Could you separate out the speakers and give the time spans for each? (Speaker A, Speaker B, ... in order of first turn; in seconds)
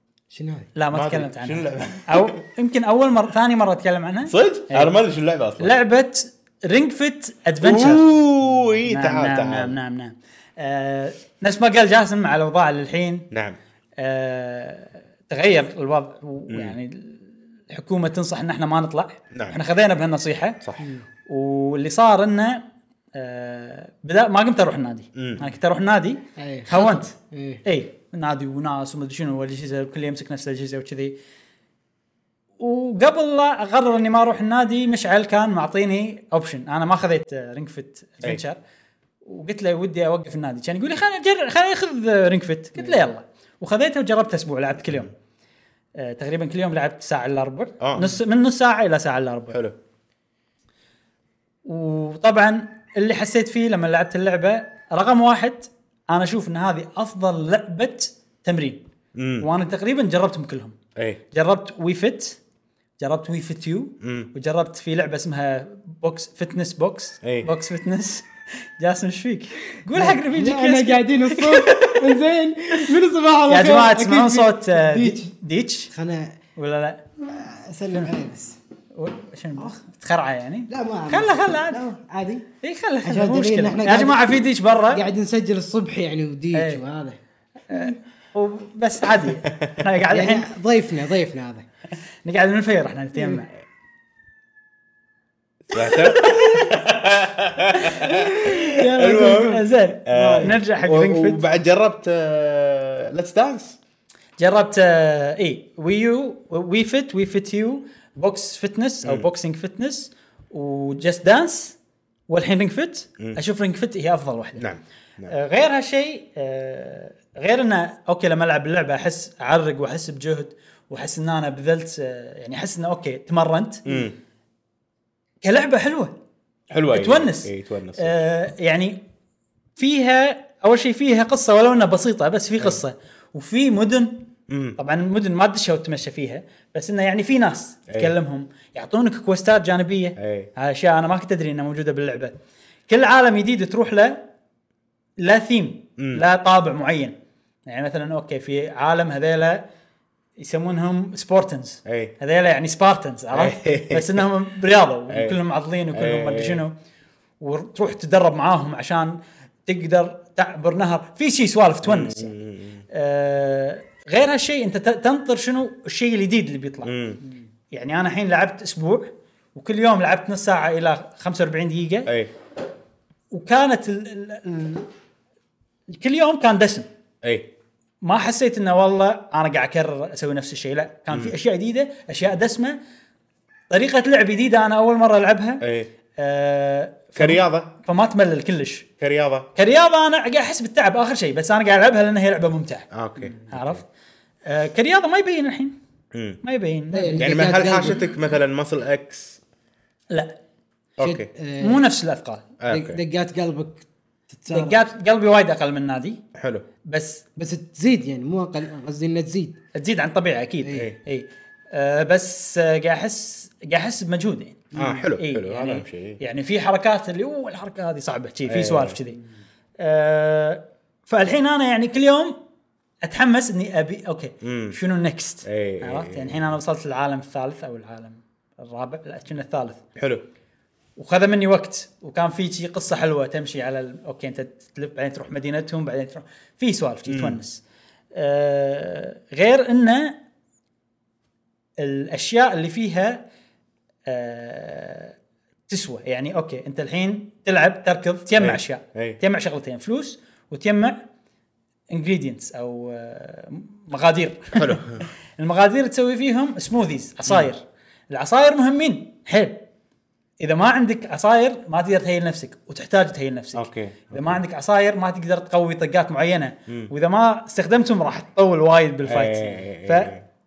Speaker A: 0.3-0.7, 20.8-21.1, 26.4-27.6, 69.9-75.3, 75.9-76.4, 77.2-78.6, 80.7-82.5, 83.0-84.4, 84.9-87.2, 87.7-88.0, 90.1-91.7, 93.2-93.4, 98.0-100.6, 196.9-198.0, 201.0-201.9, 202.7-204.8, 207.4-209.6, 210.6-210.9, 214.7-215.1
Speaker B: 0.8-5.0, 5.6-8.0, 8.9-13.3, 14.0-20.6, 21.3-27.1, 27.6-31.2, 32.6-38.6, 39.2-45.1, 46.0-49.6, 51.6-58.8, 59.4-60.8, 61.3-62.4, 63.0-72.0, 73.5-75.9, 76.6-77.0, 79.0-81.9, 82.6-85.0, 86.5-86.8, 87.7-90.5, 92.2-93.5, 96.1-96.7, 97.7-98.1, 99.2-101.4, 104.4-111.8, 112.3-114.7, 115.3-124.0, 125.4-126.2, 126.9-129.0, 129.8-134.2, 134.8-142.3, 142.9-144.2, 145.2-147.2, 147.7-149.6, 150.4-156.7, 157.4-162.3, 162.9-166.9, 167.7-172.1, 173.3-174.9, 175.9-176.9, 178.0-182.8, 183.7-185.6, 186.2-188.9, 189.6-192.9, 193.4-193.8, 194.5-195.8, 196.4-197.3, 201.6-202.5, 204.5-206.2, 206.9-207.2, 209.8-219.2, 219.8-222.4, 223.0-229.8, 231.0-237.6, 238.1-240.2, 241.8-243.2, 244.1-245.2, 245.7-251.0, 251.9-254.8, 255.4-259.6, 260.4-270.1
Speaker C: 0.9-2.4, 4.3-5.7, 7.6-9.8, 13.3-13.6, 16.5-16.8, 19.3-19.6, 20.6-20.9, 25.2-25.5, 47.8-48.2, 59.1-59.5, 61.0-61.2, 64.0-64.3, 67.2-67.5, 95.7-103.8, 114.6-115.3, 123.9-124.2, 126.7-128.2, 134.5-134.8, 140.2-140.5, 146.0-146.2, 151.9-152.2, 153.3-154.3, 155.1-155.4, 155.9-156.6, 161.8-162.8, 166.8-167.2, 172.1-172.3, 177.2-177.5, 185.6-185.9, 187.2-187.7, 189.0-189.5, 192.9-193.8, 196.1-196.4, 197.2-199.4, 201.0-201.3, 202.6-203.0, 206.3-206.7, 210.7-211.0, 214.8-216.2, 218.5-219.0, 224.4-224.8, 225.4-226.5, 230.0-230.2, 237.1-237.4, 248.4-249.2, 254.6-255.1, 263.6-264.4, 269.1-270.2